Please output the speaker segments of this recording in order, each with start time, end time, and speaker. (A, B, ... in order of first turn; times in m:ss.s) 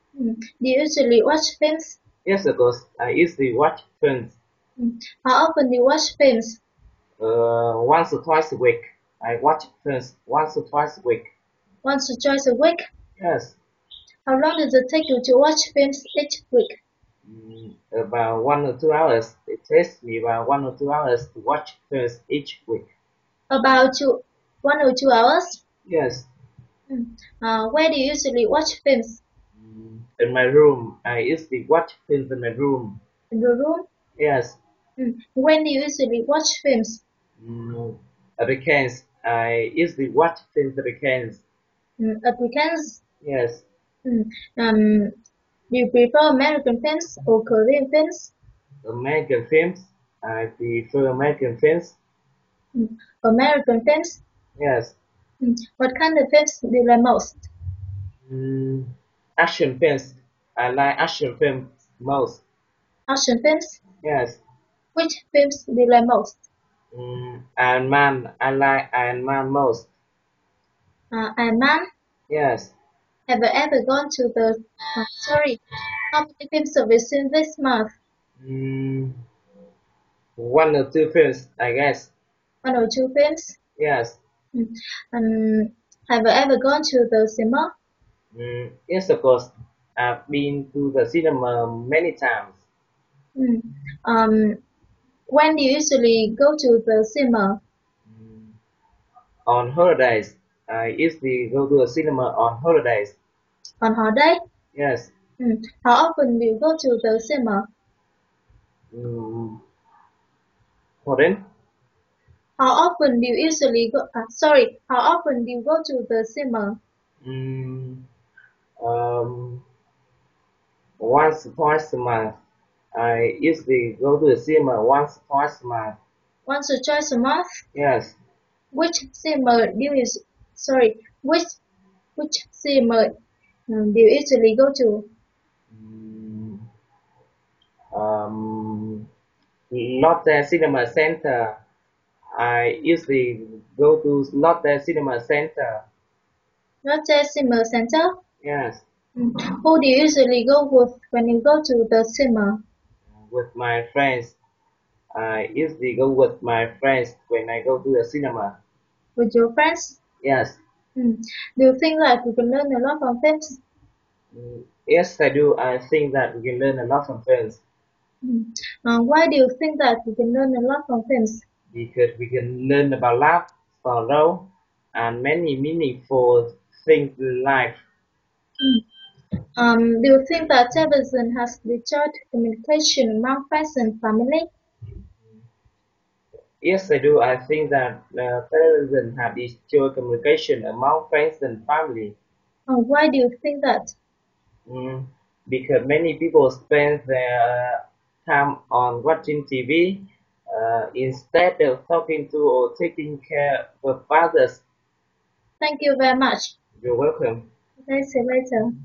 0:00.2-0:02.0 A
0:02.2-0:04.4 B
0:04.8-0:06.6 A
0:07.2-0:11.3 B
0:11.8-0:12.8 A
0:13.2-0:13.6 B
0:14.2-0:16.8 A
0:17.2-0:22.8 B
0:23.5-0:25.6 A
0:25.8-0:26.3 B
0:26.9-0:29.2 A
0:29.6-0:33.0 B
0:33.3-0:33.8 A
0:34.2-0:34.6 B
0:35.0-0:37.0 A
0:37.4-0:41.4 B
0:42.0-0:43.0 A
0:43.2-0:43.6 B
0:44.0-0:45.1 A
0:45.7-0:48.3 A
0:48.8-0:52.0 B
0:52.7-0:54.2 A
0:54.6-0:55.0 B
0:55.4-0:57.5 A
0:58.2-1:02.4 B
1:03.1-1:03.8 A
1:04.0-1:04.4 B
1:04.9-1:06.4 A
1:06.9-1:09.9 B
1:11.1-1:11.8 A
1:12.3-1:12.7 B
1:13.3-1:15.6 A
1:16.1-1:17.9 A
1:18.4-1:19.1 B
1:20.4-1:22.1 B
1:22.6-1:23.6 A
1:23.8-1:24.2 B
1:24.5-1:27.7 A
1:28.3-1:32.6 B
1:33.4-1:34.6 A
1:35.3-1:37.6 A
1:38.1-1:38.5 B
1:39.4-1:43.2 B
1:43.8-1:44.4 A
1:44.7-1:45.1 B
1:45.4-1:47.7 A
1:48.9-1:49.6 B
1:51.0-1:51.4 B
1:52.6-1:56.8 A
1:57.2-1:58.0 B
1:58.8-1:59.6 B
2:01.0-2:02.4 B
2:02.9-2:06.0 B
2:06.4-2:07.4 A
2:07.7-2:08.2 B
2:08.7-2:11.6 A
2:12.2-2:13.1 A
2:13.7-2:15.1 A
2:15.7-2:16.6 B
2:17.9-2:19.0 B
2:19.7-2:21.6 B
2:22.4-2:25.8 B
2:26.8-2:28.1 A
2:28.4-2:28.8 B
2:29.2-2:32.6 A
2:33.2-2:34.4 B
2:35.1-2:38.6 B
2:39.2-2:40.0 A
2:40.2-2:40.6 B
2:41.0-2:43.6 A
2:44.3-2:47.6 B
2:48.2-2:51.4 A
2:51.7-2:57.8 B
2:59.6-3:04.5 A
3:06.6-3:12.1 B
3:12.7-3:13.9 A
3:14.7-3:24.6 B
3:25.6-3:26.5 A
3:26.8-3:27.5 B
3:27.9-3:28.6 A